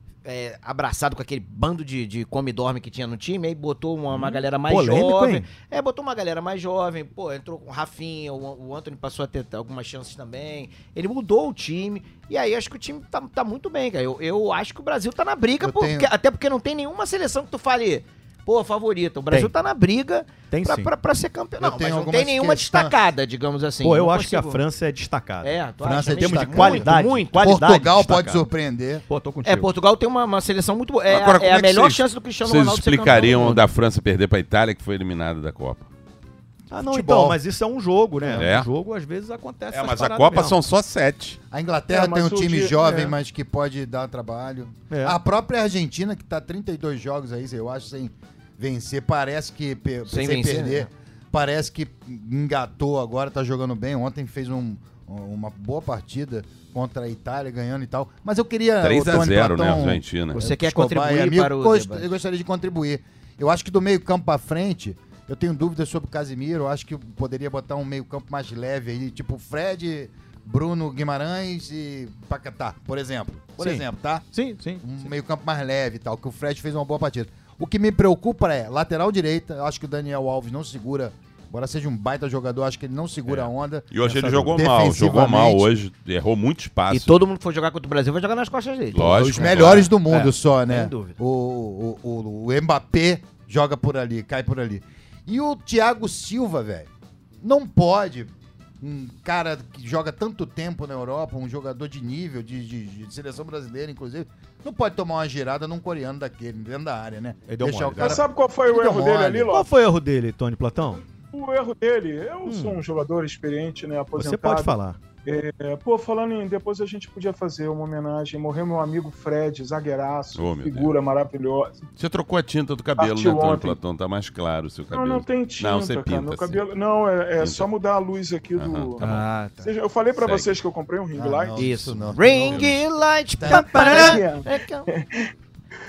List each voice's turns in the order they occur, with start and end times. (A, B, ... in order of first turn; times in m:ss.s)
0:00.2-0:24.6 A
0:04.2-0:05.5 B
0:15.6-0:16.1 C
0:20.5-0:20.9 B
0:21.6-0:23.0 C
0:23.8-0:25.6 B
0:25.4-0:27.6 A
0:25.8-0:29.0 C
0:26.1-0:28.4 B
0:29.1-0:29.7 B
0:29.4-0:33.6 A
0:31.1-0:35.9 D
0:36.7-0:37.4 C
0:36.7-0:40.6 B
0:38.3-0:38.7 D
0:39.7-0:41.4 D
0:41.5-1:14.3 C
0:41.9-0:43.1 E
0:44.9-0:45.2 B
0:50.1-0:50.9 A
0:58.8-1:00.4 D
1:00.3-1:02.1 A
1:13.6-1:14.8 B
1:14.8-1:23.9 C
1:23.9-1:27.2 D
1:24.0-1:24.6 B
1:24.5-1:25.7 C
1:26.9-1:31.2 A
1:28.9-1:29.9 D
1:29.3-1:36.9 C
1:37.4-1:49.5 C
1:47.5-1:48.2 B
1:48.0-1:49.7 E
1:49.5-1:51.0 B
1:51.3-1:54.7 E
1:52.5-1:52.8 B
1:54.2-1:55.0 B
1:55.3-2:01.8 E
2:00.4-2:01.0 D
2:02.0-2:06.6 D
2:03.0-2:03.8 E
2:04.9-2:11.6 E
2:07.4-2:07.7 D
2:08.6-2:09.3 D
2:10.2-2:10.6 D
2:11.2-2:12.8 C
2:11.6-2:14.9 A
2:13.4-2:13.9 C
2:13.5-2:14.2 B
2:13.8-2:15.3 E